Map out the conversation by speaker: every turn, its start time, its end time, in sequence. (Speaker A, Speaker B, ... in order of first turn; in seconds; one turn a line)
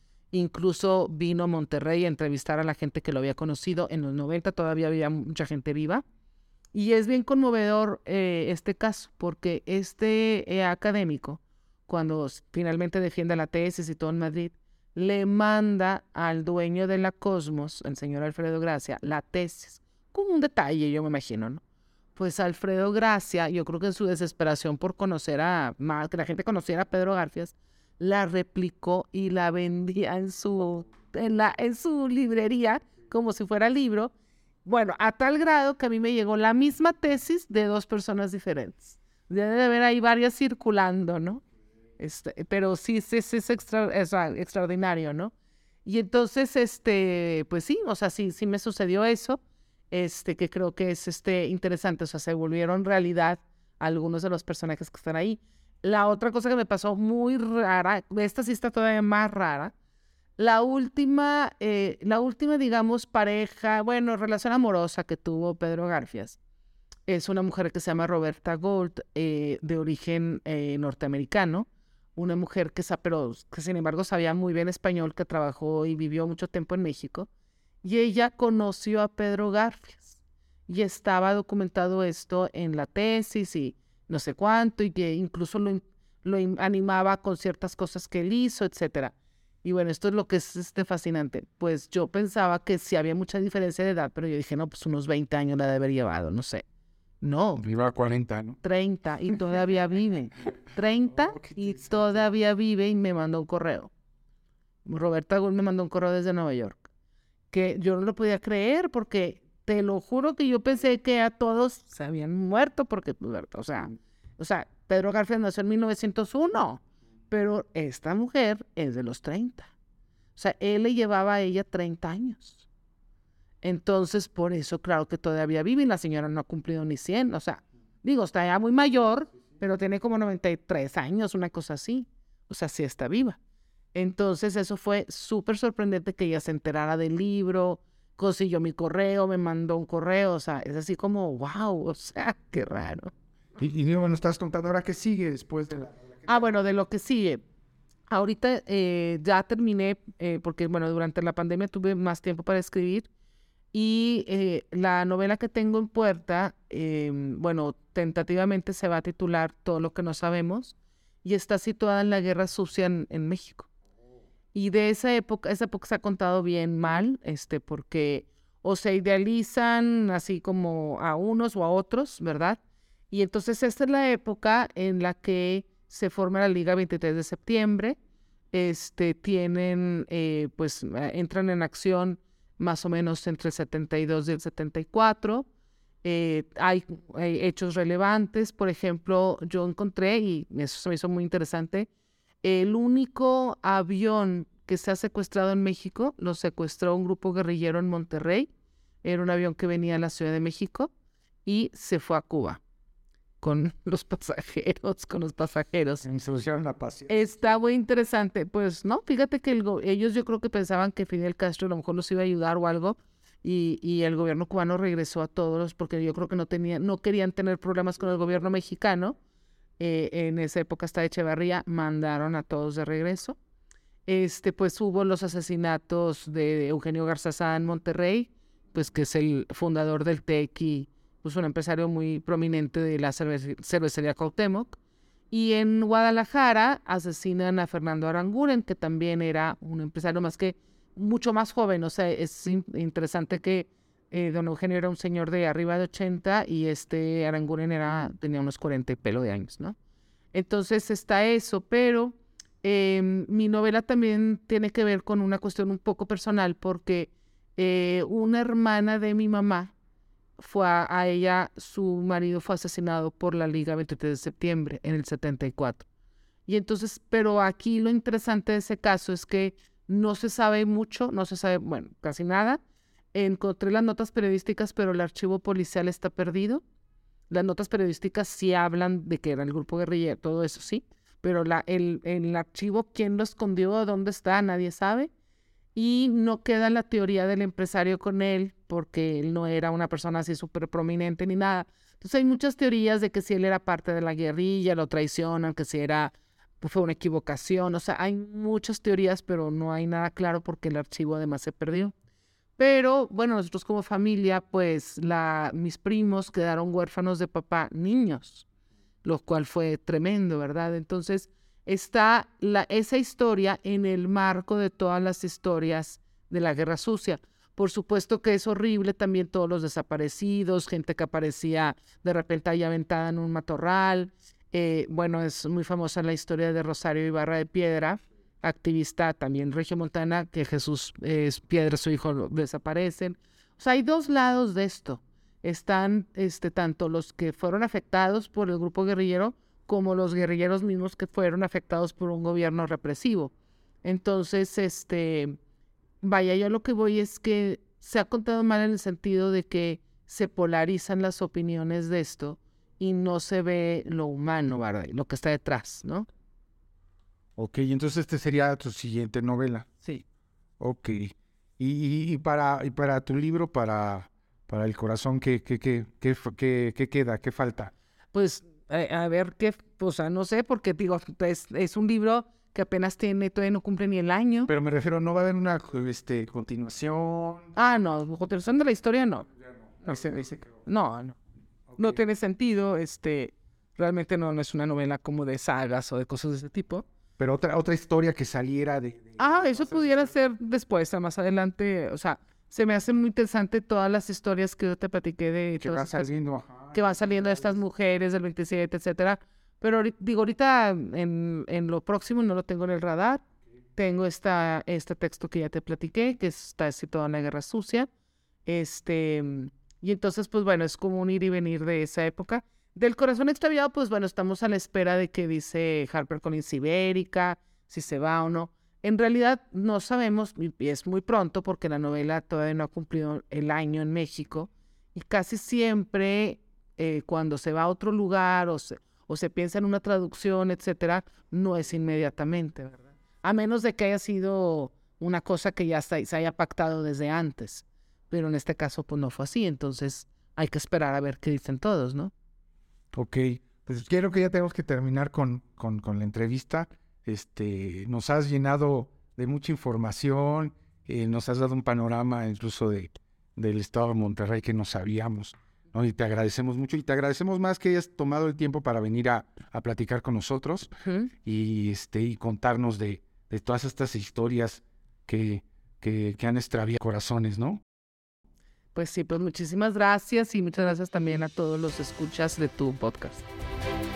Speaker A: 0.3-6.0
Speaker A: 6.7-21.6
Speaker A: 22.1-34.1
Speaker A: 34.6-41.4
Speaker A: 42.0-45.3
Speaker A: 45.8-49.4
Speaker A: 49.9-59.7
Speaker A: 60.4-66.4
Speaker A: 67.1-77.3
Speaker A: 77.8-96.6
Speaker A: 97.2-97.6
Speaker B: 97.6-98.6
Speaker A: 98.6-103.9
Speaker B: 101.3-101.9
Speaker A: 104.8-106.8
Speaker A: 107.5-119.7
Speaker A: 120.3-122.6
Speaker A: 123.6-133.4
Speaker A: 133.9-143.1
Speaker B: 143.6-146.3
Speaker A: 146.3-147.4
Speaker A: 148.1-153.1
Speaker A: 153.7-163.7
Speaker A: 164.5-172.6
Speaker A: 173.1-178.0
Speaker A: 178.5-185.5
Speaker A: 186.0-191.9
Speaker A: 192.4-198.5
Speaker A: 199.0-200.9
Speaker A: 201.4-202.6
Speaker A: 203.4-206.0
Speaker B: 206.0-207.3
Speaker A: 207.1-219.2
Speaker A: 219.8-223.4
Speaker A: 224.1-234.8
Speaker A: 235.3-249.8
Speaker A: 250.3-259.7
Speaker A: 260.4-265.9
Speaker A: 266.5-272.6
Speaker A: 273.1-276.6
Speaker A: 277.3-285.1
Speaker A: 285.7-301.9
Speaker A: 302.6-308.4
Speaker A: 309.0-343.3
Speaker A: 343.8-345.4
Speaker A: 346.0-356.1
Speaker B: 357.4-359.7
Speaker B: 360.6-367.7
Speaker A: 368.1-374.5
Speaker B: 374.5-377.5
Speaker A: 377.6-379.3
Speaker B: 379.7-380.6
Speaker A: 380.6-381.1
Speaker B: 381.7-382.0
Speaker A: 381.8-386.8
Speaker B: 387.2-390.1
Speaker A: 389.2-396.1
Speaker B: 395.6-397.5
Speaker A: 396.7-403.2
Speaker A: 403.8-407.9
Speaker A: 408.4-442.1
Speaker B: 442.9-460.7
Speaker A: 460.8-461.1
Speaker B: 461.2-467.6
Speaker A: 468.7-473.2